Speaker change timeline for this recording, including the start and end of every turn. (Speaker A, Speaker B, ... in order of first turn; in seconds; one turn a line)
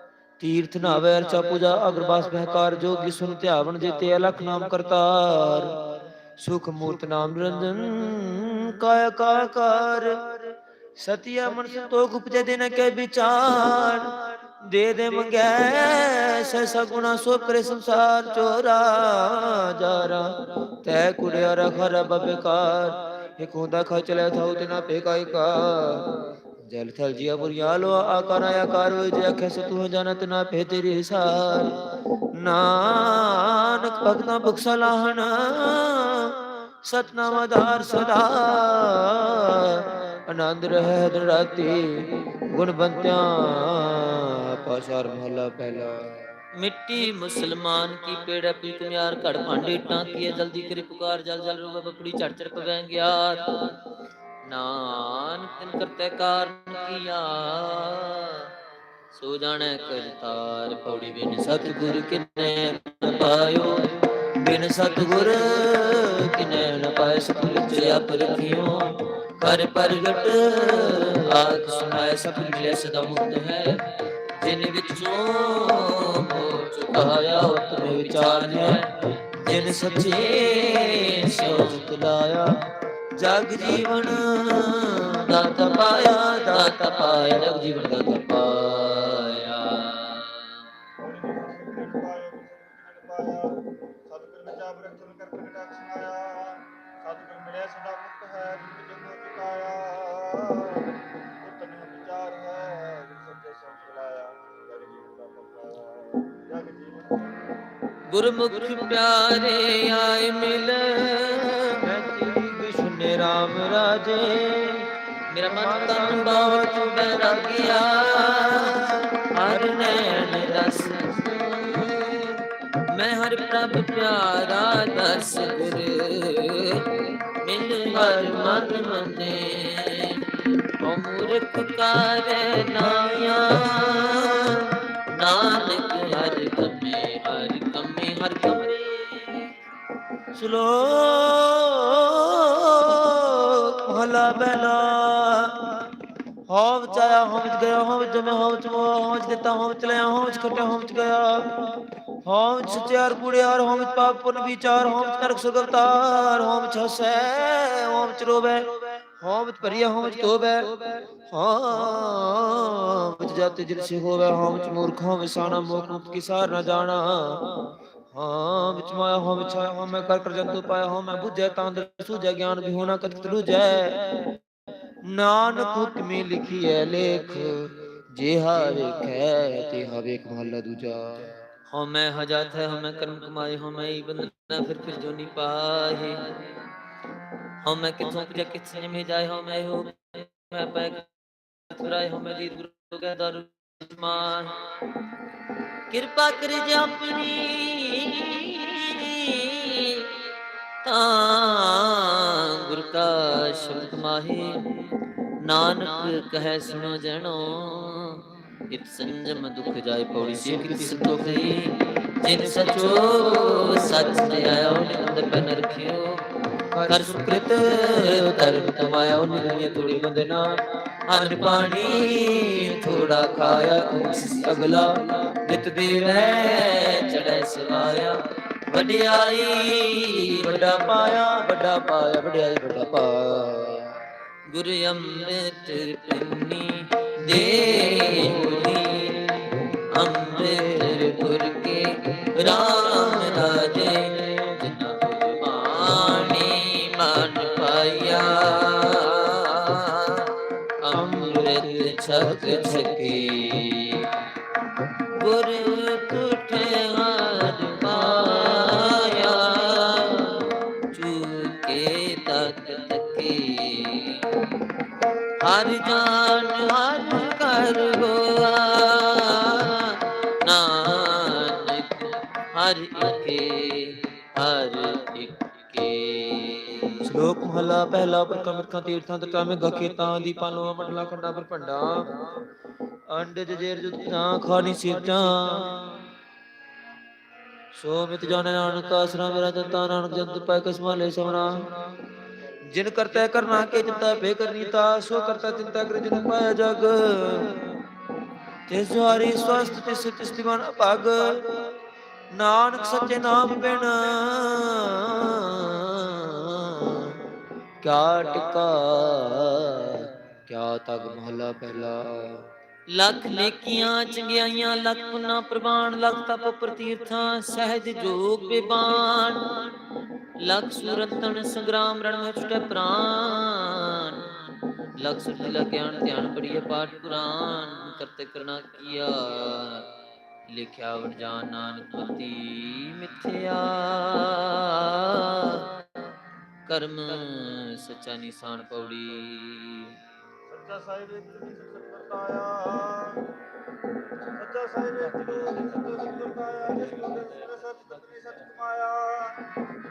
Speaker A: 0.4-5.8
Speaker A: 6.4-31.8
Speaker A: 32.3-46.2
Speaker B: 46.6-53.8
Speaker B: 54.4-58.5
Speaker B: 59.1-81.9
Speaker A: 61.4-62.2
Speaker A: 64.4-68.5
Speaker A: 70.3-71.2
Speaker A: 77.8-78.9
Speaker A: 79.4-82.6
Speaker A: 83.1-87.6
Speaker B: 83.6-90.5
Speaker C: 91.0-107.4
Speaker B: 108.1-111.8
Speaker A: 111.8-114.9
Speaker B: 115.3-139.5
Speaker A: 115.5-118.8
Speaker A: 140.3-145.9
Speaker A: 146.5-174.4
Speaker A: 175.0-181.3
Speaker B: 181.7-186.4
Speaker B: 187.6-191.1
Speaker B: 191.7-194.6
Speaker B: 195.9-200.2
Speaker B: 200.8-204.7
Speaker B: 205.4-216.2
Speaker A: 210.5-211.1
Speaker A: 213.0-213.6
Speaker A: 216.7-220.4
Speaker B: 216.9-220.1
Speaker B: 221.1-224.9
Speaker A: 221.2-226.6
Speaker B: 225.5-230.8
Speaker A: 230.4-233.9
Speaker B: 234.5-254.1
Speaker A: 242.9-243.4
Speaker A: 250.9-253.5
Speaker B: 255.1-264.2
Speaker B: 265.4-277.1
Speaker A: 277.0-282.2
Speaker A: 283.1-286.1
Speaker A: 287.8-291.7
Speaker A: 292.6-297.6
Speaker A: 298.7-301.7
Speaker A: 302.3-307.2
Speaker A: 307.8-312.4
Speaker B: 312.9-319.7
Speaker B: 320.4-324.3
Speaker B: 324.9-329.9
Speaker B: 330.5-336.0
Speaker B: 336.6-340.0
Speaker C: 340.5-343.3
Speaker C: 344.3-349.4